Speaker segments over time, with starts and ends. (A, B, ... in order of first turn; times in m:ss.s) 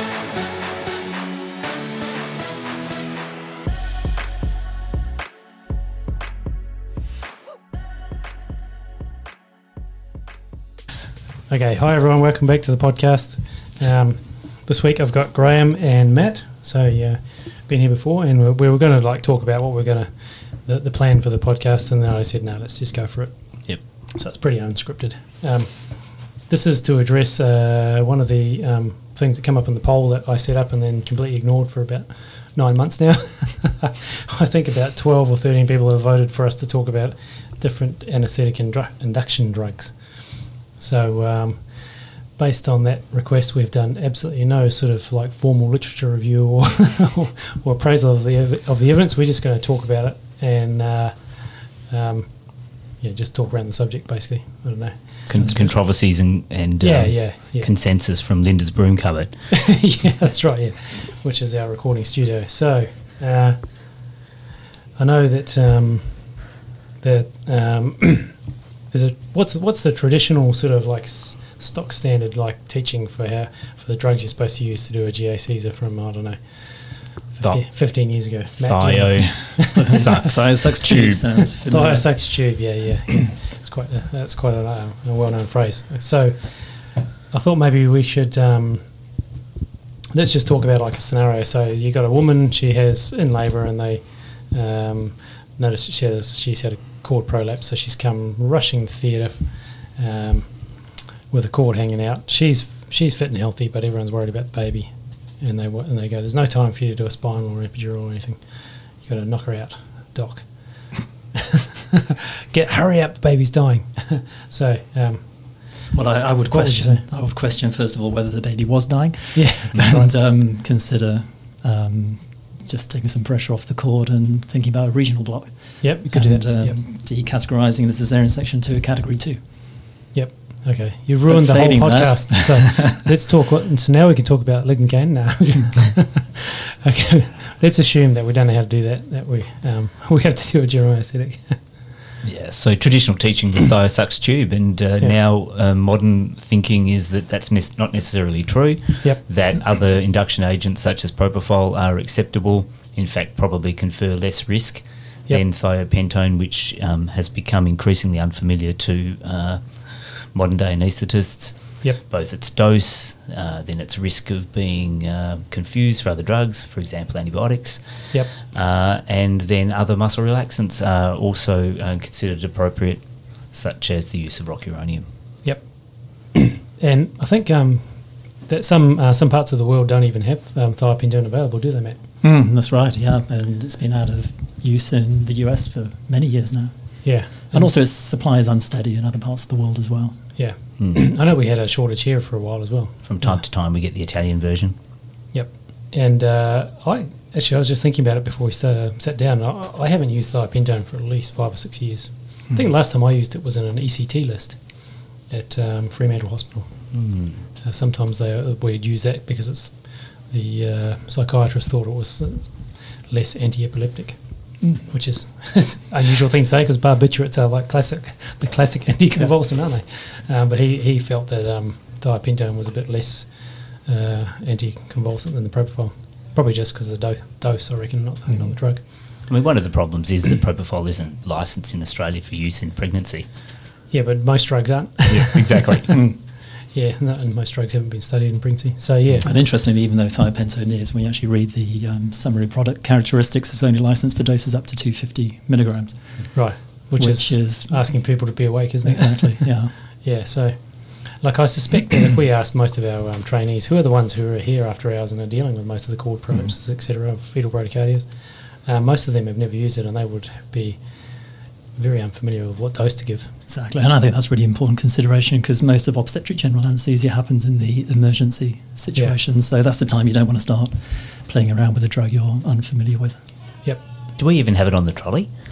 0:11.5-0:55.9 A
0:55.3-0:59.4 B
0:56.8-0:57.7 A
0:59.5-1:03.9 A
1:05.0-1:06.3 A
1:07.0-1:08.4 A
1:08.9-1:20.2 A
1:18.6-1:21.2 B
1:19.7-1:22.2 C
1:21.7-1:28.8 A
1:30.1-1:48.4 A
1:49.0-1:55.8 A
1:55.9-2:09.4 C
1:56.5-1:57.0 A
1:59.4-2:00.1 A
2:05.8-2:06.8 A
2:10.1-2:21.6 A
2:11.3-2:13.0 C
2:22.2-2:55.1 B
2:55.4-3:02.0 A
3:02.2-3:07.0 C
3:07.0-3:07.6 A
3:07.5-3:10.2 C
3:10.4-3:13.4 A
3:13.0-3:14.8 B
3:15.3-3:24.6 A
3:25.2-3:26.9 A
3:26.9-3:27.4 B
3:27.6-3:48.8 A
3:49.3-3:53.3 B
3:53.9-3:56.0 A
3:55.1-3:55.9 B
3:55.9-3:56.2 C
3:56.7-3:59.3 A
3:59.2-4:06.0 C
4:06.3-4:18.1 A
4:07.0-4:07.9 C
4:08.8-4:09.7 C
4:18.6-4:20.8 A
4:21.8-4:23.3 A
4:23.5-4:33.2 C
4:34.2-4:35.3 B